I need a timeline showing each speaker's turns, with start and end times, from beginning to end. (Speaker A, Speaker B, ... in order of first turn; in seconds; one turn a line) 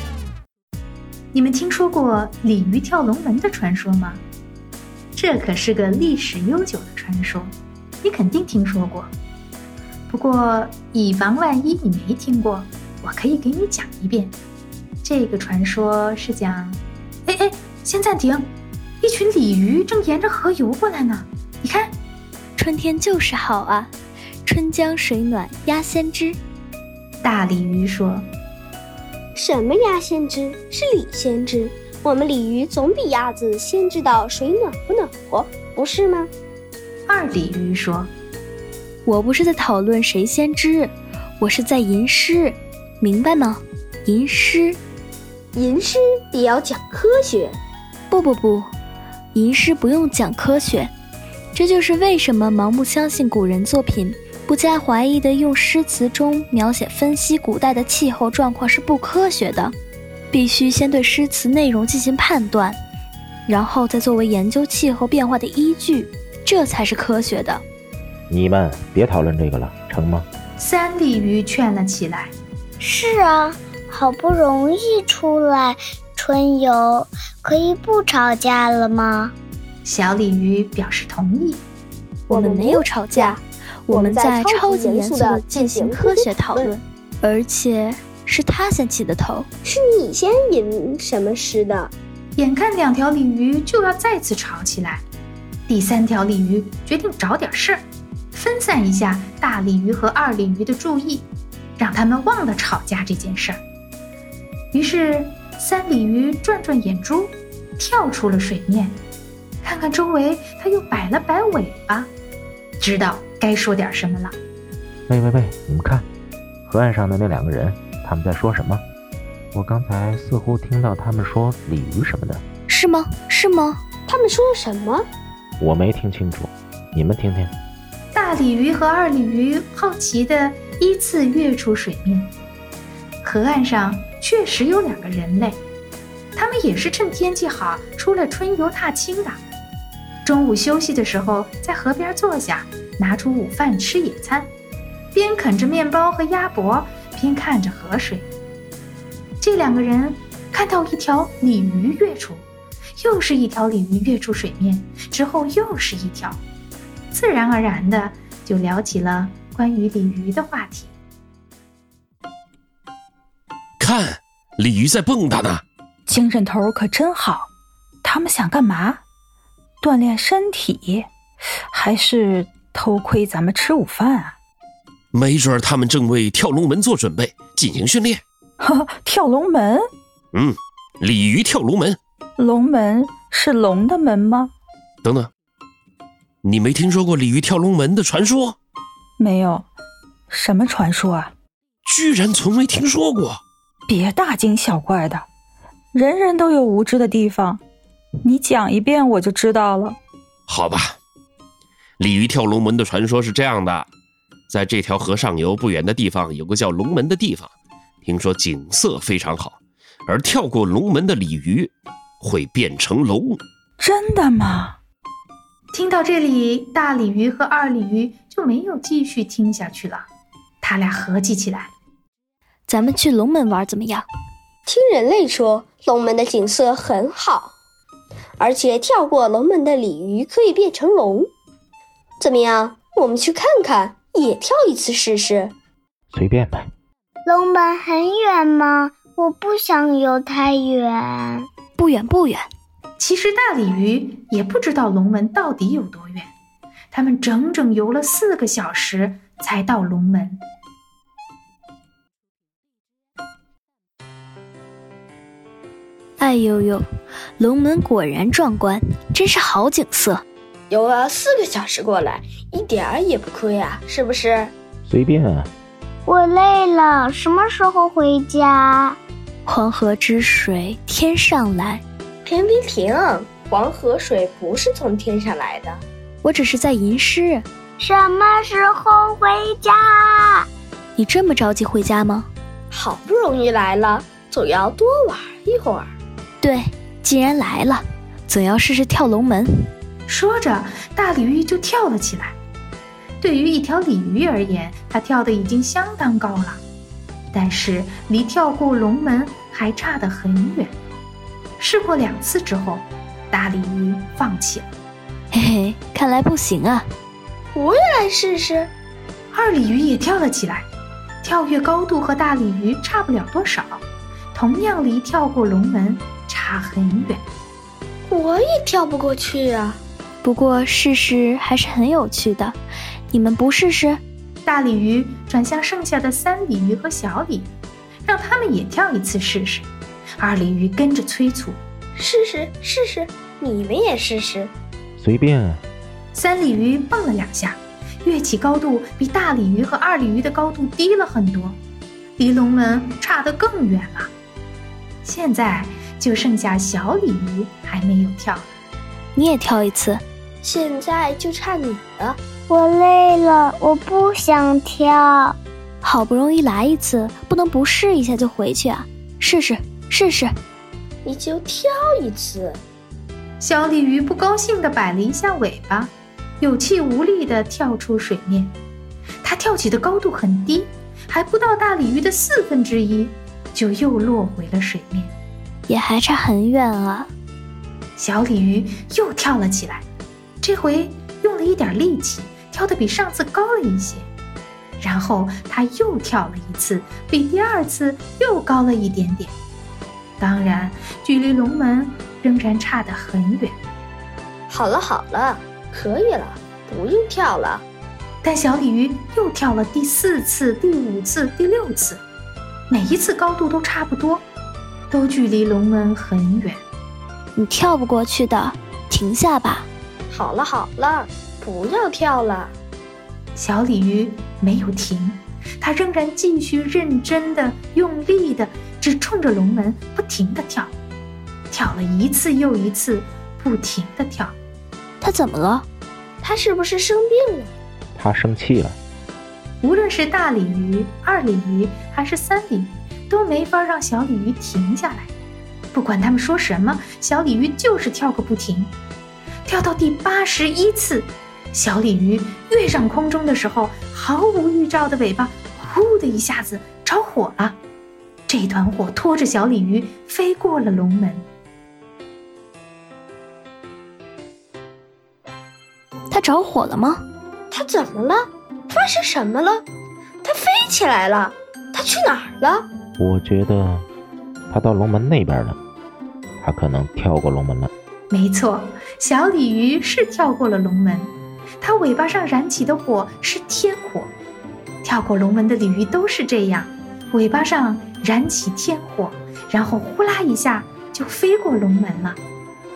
Speaker A: 1.3-4.2
Speaker A: 5.2-9.1
Speaker A: 10.1-14.3
Speaker A: 15.0-18.5
Speaker A: 19.0-21.9
Speaker B: 22.6-23.9
Speaker B: 24.4-26.4
Speaker A: 27.2-28.3
Speaker C: 29.3-36.3
Speaker A: 37.1-38.1
Speaker B: 39.0-44.8
Speaker C: 45.5-47.6
Speaker B: 48.1-48.7
Speaker B: 49.3-50.9
Speaker B: 51.5-59.7
Speaker B: 60.3-62.8
Speaker B: 63.5-67.6
Speaker D: 68.3-70.2
Speaker A: 70.6-72.3
Speaker E: 72.8-79.3
Speaker A: 79.8-81.6
Speaker C: 82.3-86.8
Speaker B: 82.3-89.5
Speaker C: 89.7-91.9
Speaker A: 92.3-95.0
Speaker A: 95.7-103.6
Speaker A: 104.7-109.0
Speaker A: 109.6-112.1
Speaker A: 112.8-114.3
Speaker D: 115.1-116.1
Speaker D: 116.7-118.8
Speaker D: 119.5-122.4
Speaker B: 122.7-123.8
Speaker C: 124.1-125.1
Speaker D: 125.6-127.5
Speaker A: 128.1-132.3
Speaker A: 133.2-135.6
Speaker A: 136.3-139.4
Speaker A: 140.2-144.5
Speaker A: 145.1-148.3
Speaker A: 149.4-152.4
Speaker A: 153.0-156.4
Speaker A: 157.1-160.9
Speaker F: 163.8-165.6
Speaker G: 166.1-167.5
Speaker G: 168.0-169.0
Speaker G: 169.8-171.1
Speaker G: 171.7-174.3
Speaker F: 175.1-178.2
Speaker G: 178.6-179.9
Speaker F: 180.3-182.0
Speaker G: 182.4-184.5
Speaker F: 185.0-185.3
Speaker F: 186.4-188.6
Speaker G: 189.2-189.7
Speaker G: 190.3-191.3
Speaker F: 191.8-193.4
Speaker G: 193.9-195.2
Speaker G: 195.9-197.6
Speaker G: 198.2-200.0
Speaker F: 200.5-201.0
Speaker F: 202.0-203.9
Speaker F: 204.5-207.5
Speaker F: 208.0-213.4
Speaker G: 213.8-214.8
Speaker A: 215.7-220.1
Speaker A: 220.6-221.7
Speaker B: 222.7-224.1
Speaker C: 224.7-227.6
Speaker C: 228.4-231.3
Speaker C: 232.2-235.6
Speaker D: 236.1-236.7
Speaker E: 237.2-241.5
Speaker B: 241.8-242.5
Speaker A: 243.0-246.3
Speaker A: 246.9-250.4
Speaker B: 256.2-256.8
Speaker B: 257.4-260.2
Speaker C: 260.7-264.5
Speaker D: 264.9-265.5
Speaker E: 266.1-269.0
Speaker B: 269.4-271.8
Speaker C: 272.2-275.8
Speaker B: 276.2-277.4
Speaker E: 277.8-280.5
Speaker B: 280.9-282.3
Speaker C: 282.7-285.9
Speaker B: 286.4-289.7
Speaker A: 290.1-292.4
Speaker A: 293.2-296.6
Speaker A: 297.3-300.7
Speaker A: 301.6-304.7
Speaker B: 305.3-306.9
Speaker C: 307.6-308.7
Speaker A: 309.3-310.7
Speaker A: 311.2-317.2
Speaker C: 318.1-319.8
Speaker B: 320.2-322.6
Speaker B: 323.1-324.0
Speaker A: 324.4-327.5
Speaker A: 328.1-329.7
Speaker A: 330.2-331.6
Speaker C: 331.9-334.5
Speaker D: 335.0-335.6
Speaker A: 336.1-341.6
Speaker A: 342.2-344.1
Speaker A: 345.0-348.5
Speaker B: 349.1-350.0
Speaker C: 350.4-352.2
Speaker E: 352.5-355.4
Speaker B: 355.8-360.3
Speaker C: 361.1-362.6
Speaker A: 363.4-368.6
Speaker A: 369.2-375.1
Speaker B: 375.7-377.1
Speaker A: 378.0-379.9
Speaker A: 380.4-384.1
Speaker A: 384.8-389.4
Speaker A: 390.2-393.6
Speaker C: 394.5-397.6
Speaker A: 398.2-402.0
Speaker A: 402.7-404.2
Speaker A: 404.9-406.6
Speaker B: 407.4-409.7
Speaker C: 410.1-412.5
Speaker A: 413.4-420.7
Speaker A: 421.5-424.4
Speaker B: 425.0-425.7
Speaker C: 426.2-427.5
Speaker D: 427.9-428.8
Speaker A: 429.6-435.1
Speaker A: 435.7-438.7
Speaker A: 439.5-447.6
Speaker A: 448.3-451.2
Speaker B: 456.1-457.0
Speaker C: 457.5-459.6
Speaker C: 460.2-462.7
Speaker D: 463.0-463.9
Speaker D: 464.5-465.6
Speaker D: 466.4-467.7
Speaker A: 468.1-474.1
Speaker A: 474.8-482.2